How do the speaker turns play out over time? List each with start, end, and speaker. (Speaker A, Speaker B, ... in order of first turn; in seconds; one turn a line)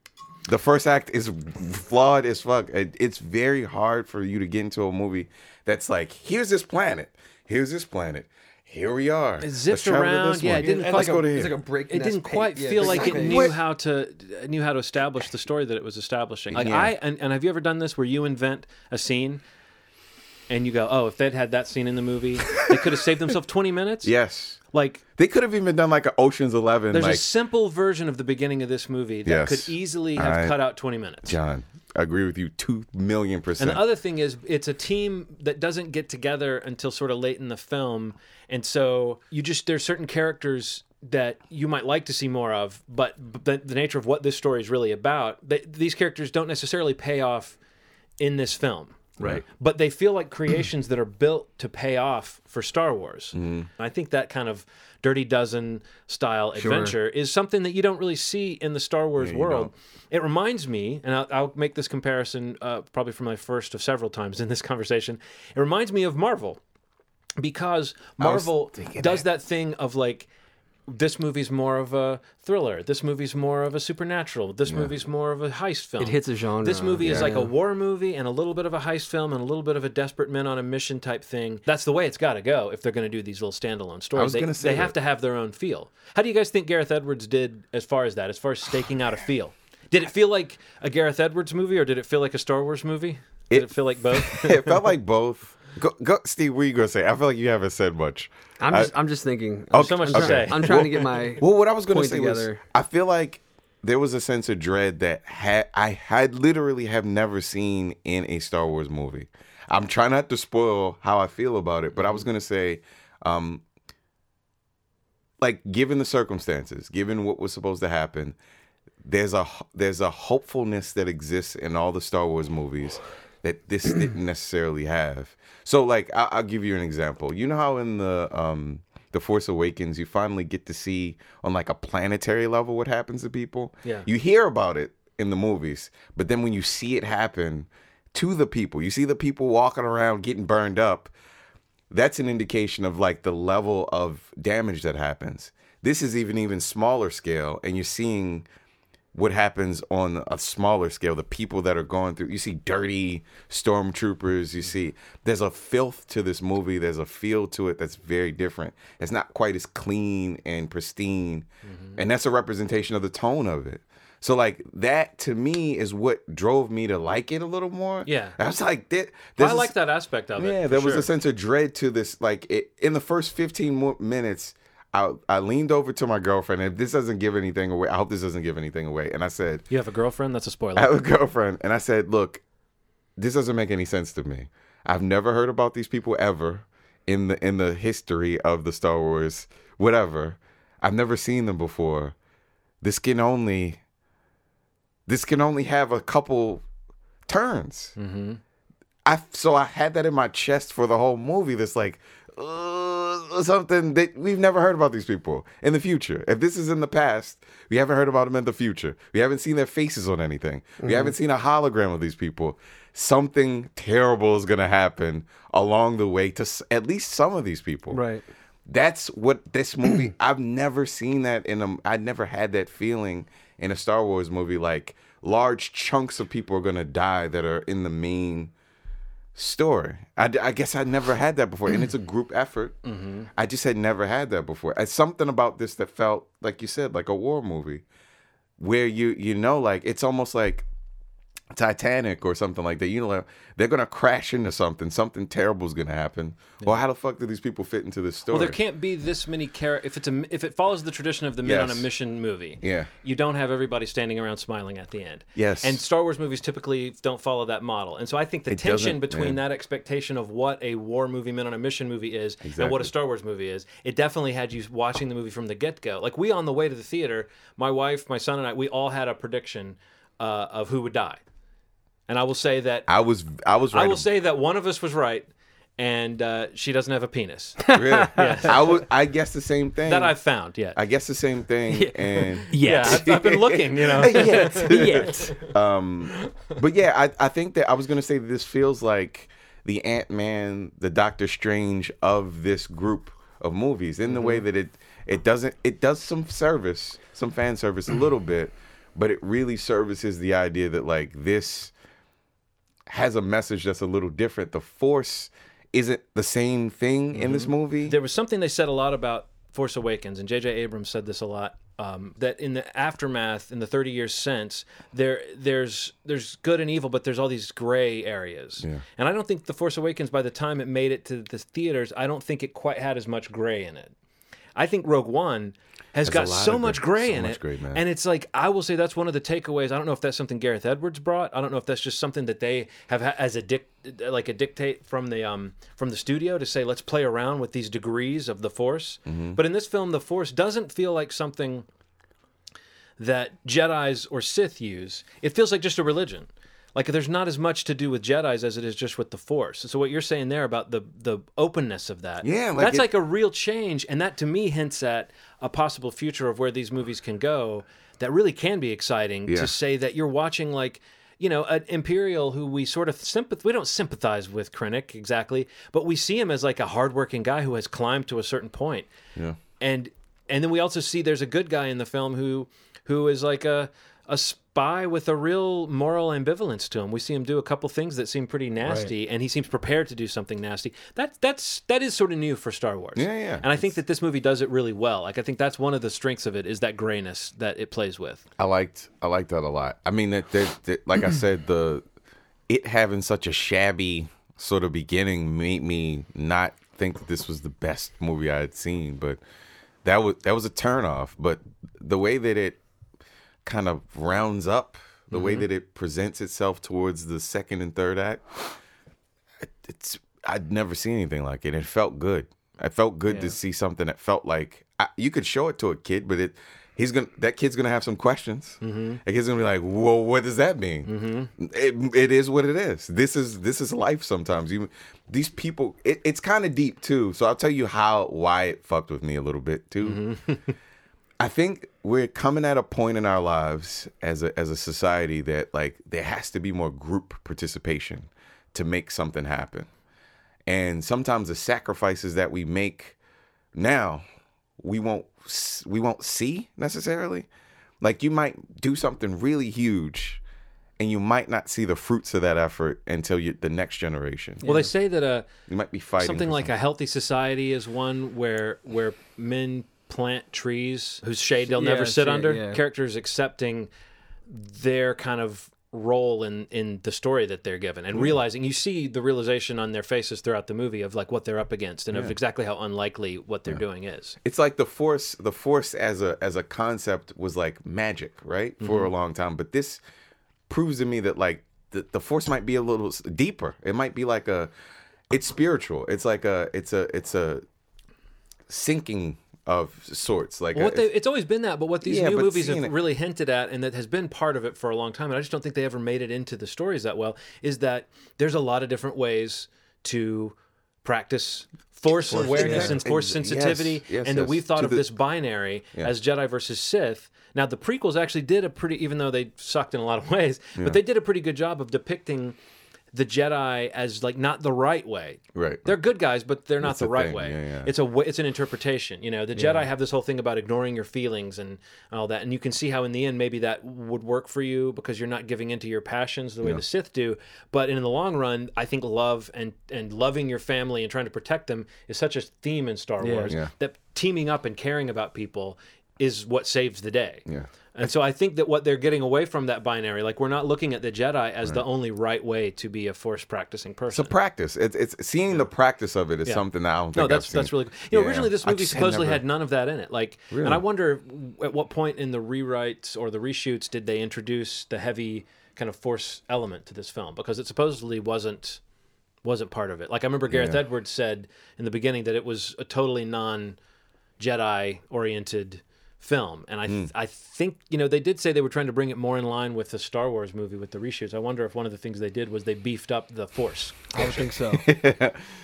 Speaker A: 0.5-11.6
Speaker B: 9.4-11.2
Speaker C: 10.6-13.5
Speaker B: 11.9-19.4
Speaker A: 12.8-13.6
Speaker A: 16.5-16.9
Speaker B: 20.5-24.1
Speaker A: 22.6-22.9
Speaker A: 24.0-24.6
Speaker B: 24.7-25.0
Speaker A: 25.2-27.2
Speaker B: 26.9-31.4
Speaker A: 29.2-30.6
Speaker A: 31.2-33.8
Speaker B: 33.6-47.6
Speaker B: 48.2-66.6
Speaker A: 53.3-53.7
Speaker C: 56.6-57.0
Speaker A: 59.2-59.7
Speaker B: 67.4-70.3
Speaker A: 68.2-69.3
Speaker B: 70.9-94.9
Speaker A: 74.7-74.9
Speaker C: 76.0-77.5
Speaker A: 77.0-77.3
Speaker A: 84.2-85.0
Speaker A: 93.5-98.9
Speaker C: 98.6-102.6
Speaker A: 99.7-113.6
Speaker B: 99.8-101.4
Speaker A: 115.4-118.4
Speaker A: 119.0-141.1
Speaker A: 141.9-148.5
Speaker A: 149.1-161.5
Speaker B: 161.7-162.0
Speaker A: 162.0-169.7
Speaker B: 168.1-168.4
Speaker B: 169.4-171.1
Speaker A: 170.4-179.6
Speaker B: 179.7-180.9
Speaker A: 180.8-182.4
Speaker A: 183.2-192.2
Speaker A: 192.8-193.8
Speaker A: 195.1-196.6
Speaker A: 197.3-197.9
Speaker B: 198.0-198.4
Speaker A: 199.1-218.0
Speaker C: 210.8-211.1
Speaker C: 217.9-218.2
Speaker A: 218.7-228.5
Speaker A: 229.3-232.8
Speaker B: 232.8-233.3
Speaker A: 233.3-237.8
Speaker A: 238.6-240.7
Speaker A: 241.5-248.6
Speaker B: 248.3-271.2
Speaker A: 251.4-251.9
Speaker A: 252.6-252.9
Speaker A: 255.4-255.8
Speaker A: 258.5-259.4
Speaker A: 262.4-262.9
Speaker B: 272.1-272.9
Speaker A: 272.9-274.1
Speaker B: 273.7-275.3
Speaker B: 275.8-278.9
Speaker C: 277.6-278.4
Speaker A: 277.7-280.1
Speaker B: 279.9-280.8
Speaker A: 280.8-301.7
Speaker C: 281.7-283.3
Speaker B: 282.5-285.5
Speaker C: 284.0-285.4
Speaker A: 302.9-308.0
Speaker B: 307.1-323.9
Speaker B: 324.6-341.7
Speaker A: 326.0-327.8
Speaker A: 339.1-339.4
Speaker B: 343.0-368.9
Speaker A: 352.2-352.9
Speaker A: 359.3-359.5
Speaker B: 369.6-388.3
Speaker A: 383.0-383.7
Speaker A: 388.4-391.8
Speaker A: 392.5-399.2
Speaker A: 399.8-402.6
Speaker A: 403.4-408.5
Speaker B: 405.1-405.5
Speaker A: 409.4-430.0
Speaker B: 418.6-419.0
Speaker B: 420.9-421.3
Speaker B: 429.8-430.5
Speaker A: 431.2-439.7
Speaker A: 440.5-443.0
Speaker A: 443.6-444.0
Speaker A: 444.6-447.3
Speaker A: 447.8-450.2
Speaker A: 450.8-454.4
Speaker C: 454.4-454.7
Speaker B: 454.4-455.3
Speaker A: 455.5-456.5
Speaker B: 456.0-463.7
Speaker C: 461.5-462.6
Speaker B: 464.3-474.2
Speaker A: 474.2-479.8
Speaker B: 478.6-478.9
Speaker A: 480.5-484.5
Speaker A: 485.1-487.4
Speaker A: 488.5-490.9
Speaker B: 490.5-512.4
Speaker A: 491.8-492.7
Speaker C: 502.1-502.8
Speaker A: 502.1-504.9
Speaker B: 512.9-537.2
Speaker A: 515.4-515.8
Speaker A: 516.6-517.7
Speaker C: 519.4-519.6
Speaker C: 533.0-533.4
Speaker A: 537.3-537.9
Speaker B: 537.8-544.1
Speaker A: 543.9-549.2
Speaker B: 546.2-558.6
Speaker A: 550.3-550.6
Speaker B: 559.2-563.6
Speaker A: 560.3-560.6
Speaker B: 564.2-573.9
Speaker C: 573.9-574.7
Speaker A: 574.5-575.3